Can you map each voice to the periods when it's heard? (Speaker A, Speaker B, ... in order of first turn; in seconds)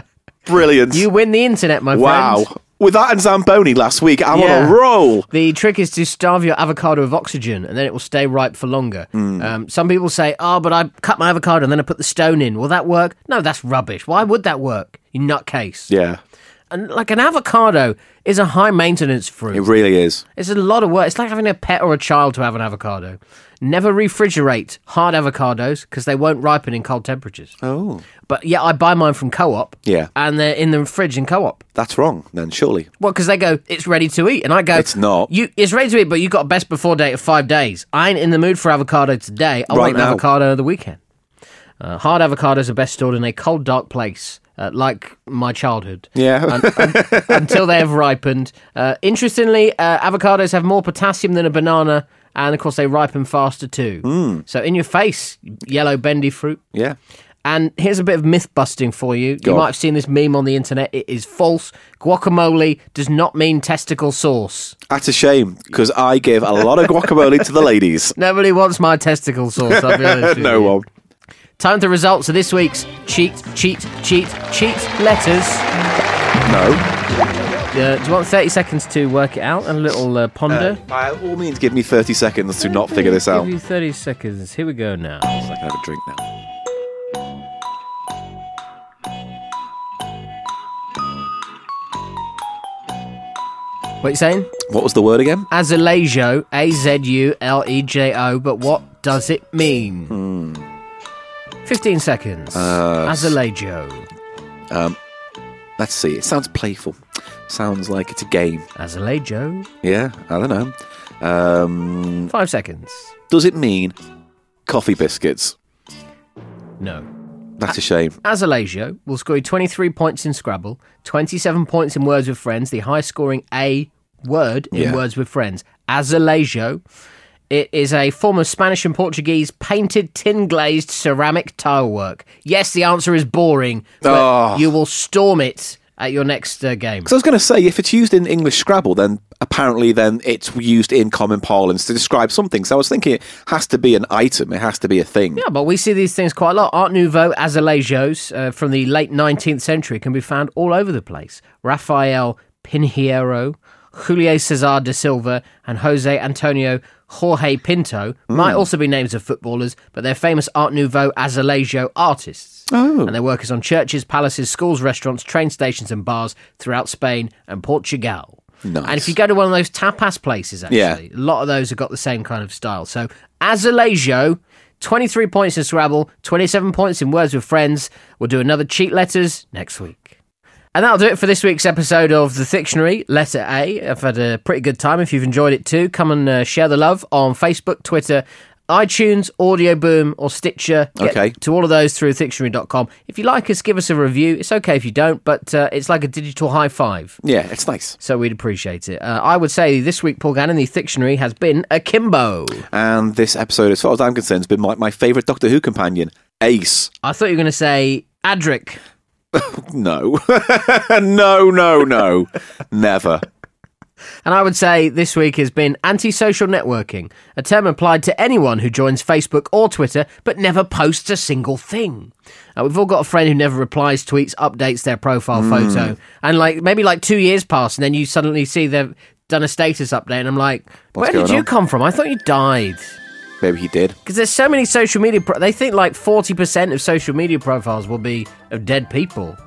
Speaker A: 0.5-1.1, 1.9-5.3, 9.1-9.5, 15.9-16.2, 19.5-20.2, 27.6-28.0, 31.8-32.9, 34.8-35.3, 39.7-40.2, 46.2-47.7, 54.0-54.4, 59.4-59.7, 64.9-68.2, 69.7-70.9, 76.5-76.8, 80.5-83.5, 85.3-86.2, 94.6-95.5, 100.1-100.7, 102.5-103.4, 104.7-105.0, 105.8-108.7, 109.8-112.3, 113.3-114.0, 114.7-115.6, 117.6-118.2, 124.7-125.0, 134.0-134.7, 137.1-145.4, 158.3-158.6, 162.7-163.1, 168.6-169.2, 170.7-171.0, 191.0-191.4, 197.2-198.0, 202.7-206.9, 209.3-213.2, 225.3-226.0, 230.9-231.5, 233.4-234.0
Speaker B: 0.9-2.5, 4.3-4.8, 5.3-15.9, 16.7-19.7, 20.4-27.6, 28.2-31.6, 33.0-41.0, 41.8-56.6, 57.4-64.8, 68.2-70.8, 71.6-75.7, 77.7-80.8, 82.7-85.4, 94.0-94.5, 95.5-100.2, 101.7-104.1, 108.8-109.7, 112.3-113.1, 116.8-117.1, 118.2-126.8, 127.5-137.1, 145.4-180.2, 180.7-197.2, 198.0-202.7, 207.0-208.8, 214.2-232.9, 234.1-239.4